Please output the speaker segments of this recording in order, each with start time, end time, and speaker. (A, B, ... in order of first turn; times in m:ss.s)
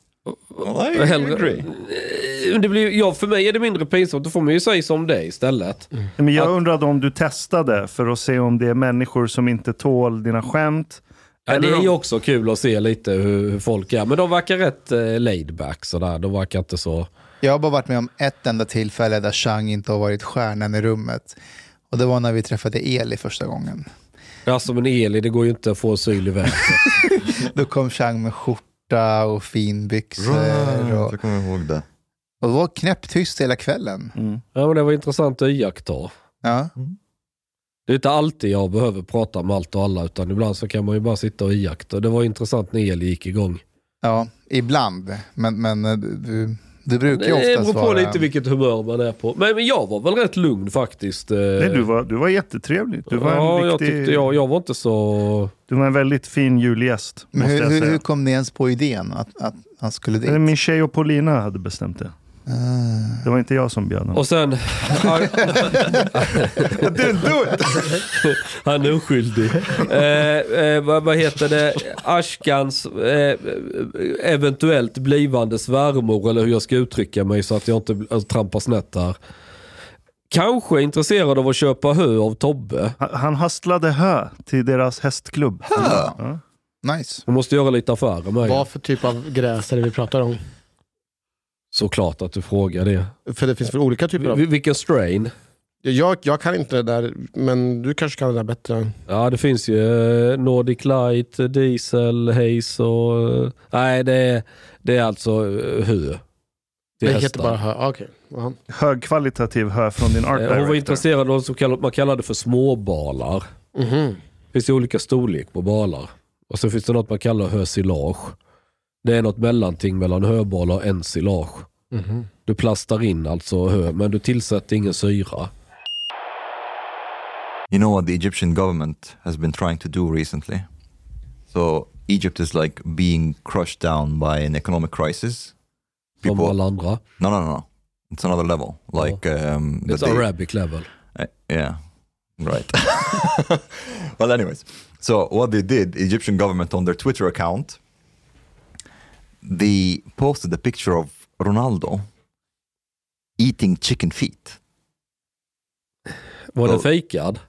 0:00.3-0:06.5 A
0:00.6-0:01.7 B
0:06.2-0:11.9 C
0:11.5-0:17.1 A
0:17.4-0:21.4 D
0:21.9-0:23.9 D
0:24.4-0:26.8 A
0:27.3-0:31.2 D
0:30.2-0:31.8 B
0:32.4-0:34.1 D
0:34.2-0:34.4 C
0:34.5-0:36.1 A
0:36.4-0:36.7 D
0:37.9-0:43.6 A
0:44.0-0:48.3 D
0:47.1-0:51.9 A
0:51.6-0:54.2 C
0:53.1-0:55.5 A
0:55.7-0:58.0 C
0:57.3-1:00.5 D
1:00.2-1:02.1 C
1:02.5-1:03.2 D
1:03.2-1:04.2 C
1:04.2-1:07.0 A
1:06.8-1:08.0 B
1:08.1-1:19.2 A
1:20.3-1:23.0 A
1:23.0-1:25.7 C
1:25.6-1:26.1 B
1:25.8-1:26.2 D
1:26.8-1:27.2 D
1:27.3-1:28.6 A
1:28.4-1:30.4 E
1:31.7-1:33.1 A
1:33.2-1:34.4 E
1:34.2-1:35.3 A
1:35.8-1:39.0 E
1:39.1-1:46.2 A
1:47.0-1:48.6 E
1:47.0-1:47.6 A
1:48.7-1:51.0 C
1:50.3-1:53.4 A
1:53.7-1:54.2 E
1:54.5-1:58.4 A
1:59.0-2:01.7 A
2:01.9-2:02.3 E
2:02.4-2:05.5 A
2:07.7-2:10.6 B
2:11.5-2:15.5 B
2:16.2-2:16.6 B
2:16.2-2:17.0 A
2:17.2-2:20.3 B
2:19.8-2:20.9 A
2:21.1-2:21.8 B
2:22.4-2:27.8 B
2:29.4-2:32.1 B
2:33.4-2:34.6 B
2:36.5-2:37.4 A